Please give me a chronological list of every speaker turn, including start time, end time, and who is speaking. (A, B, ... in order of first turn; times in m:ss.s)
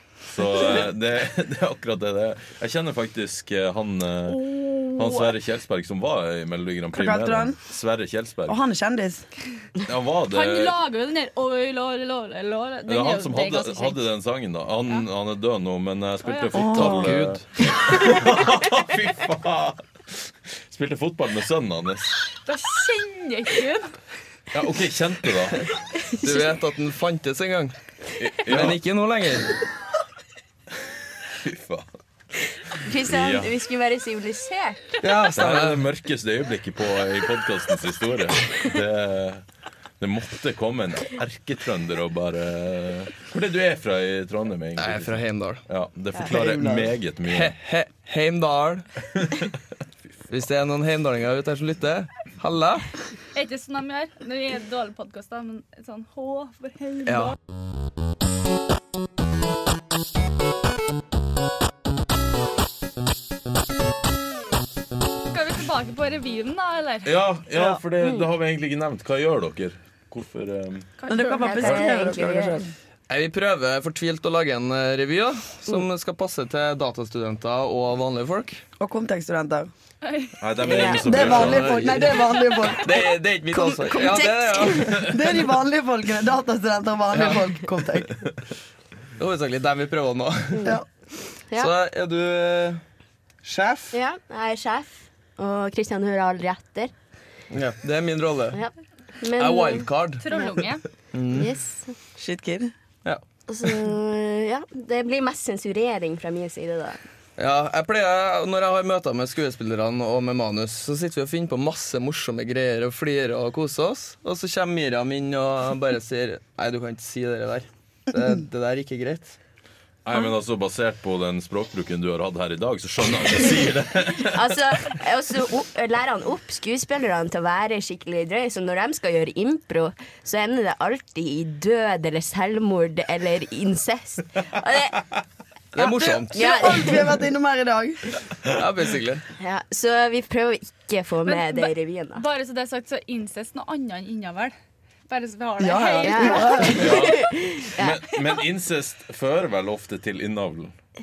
0:00.3-0:08.6 A
0:04.3-0:05.3 B
0:06.9-0:07.6 C
0:08.5-0:09.3 C
0:09.9-0:10.8 A
0:10.3-0:14.0 B
0:12.9-0:22.1 A
0:16.2-0:16.6 B
0:16.5-0:17.2 C
0:16.8-0:17.4 D
0:22.5-0:23.9 B
0:24.5-0:25.7 A
0:26.1-0:26.5 E
0:26.2-0:27.8 D
0:28.2-0:28.8 A
0:28.5-0:29.6 D
0:31.4-0:32.0 A
0:32.8-0:35.0 E
0:33.0-0:33.5 A
0:35.0-0:35.8 D
0:35.3-0:39.4 A
0:40.0-0:47.6 A
0:44.8-0:45.6 D
0:46.1-0:46.9 C
0:47.3-0:48.9 D
0:50.3-0:52.9 D
0:53.3-0:57.3 B
0:57.1-0:57.4 D
1:05.3-1:07.2 B
1:07.0-1:10.9 A
1:08.0-1:08.3 E
1:11.0-1:11.9 B
1:11.1-1:12.7 C
1:11.4-1:12.6 E
1:13.1-1:18.6 D
1:18.8-1:19.7 C
1:20.0-1:20.4 B
1:20.4-1:22.0 A
1:20.6-1:21.3 E
1:21.0-1:23.1 C
1:21.1-1:25.1 D
1:23.5-1:25.1 E
1:25.1-1:28.2 C
1:27.1-1:27.4 D
1:29.2-1:30.8 D
1:31.6-1:32.8 D
1:33.4-1:34.0 D
1:33.9-1:36.9 E
1:37.5-1:38.6 D
1:38.5-1:40.5 E
1:39.4-1:40.2 D
1:40.2-1:40.8 B
1:41.1-1:41.5 D
1:41.3-1:42.0 E
1:42.2-1:42.7 C
1:43.5-1:47.0 E
1:47.4-1:59.4 D
2:00.0-2:04.5 A
2:04.2-2:15.1 E
2:15.7-2:16.4 D
2:15.8-2:18.0 C
2:16.3-2:17.1 E
2:18.5-2:19.2 D
2:19.4-2:22.2 E
2:21.2-2:24.6 B
2:25.1-2:26.9 B
2:25.6-2:27.1 C
2:26.0-2:28.0 E
2:26.8-2:30.7 A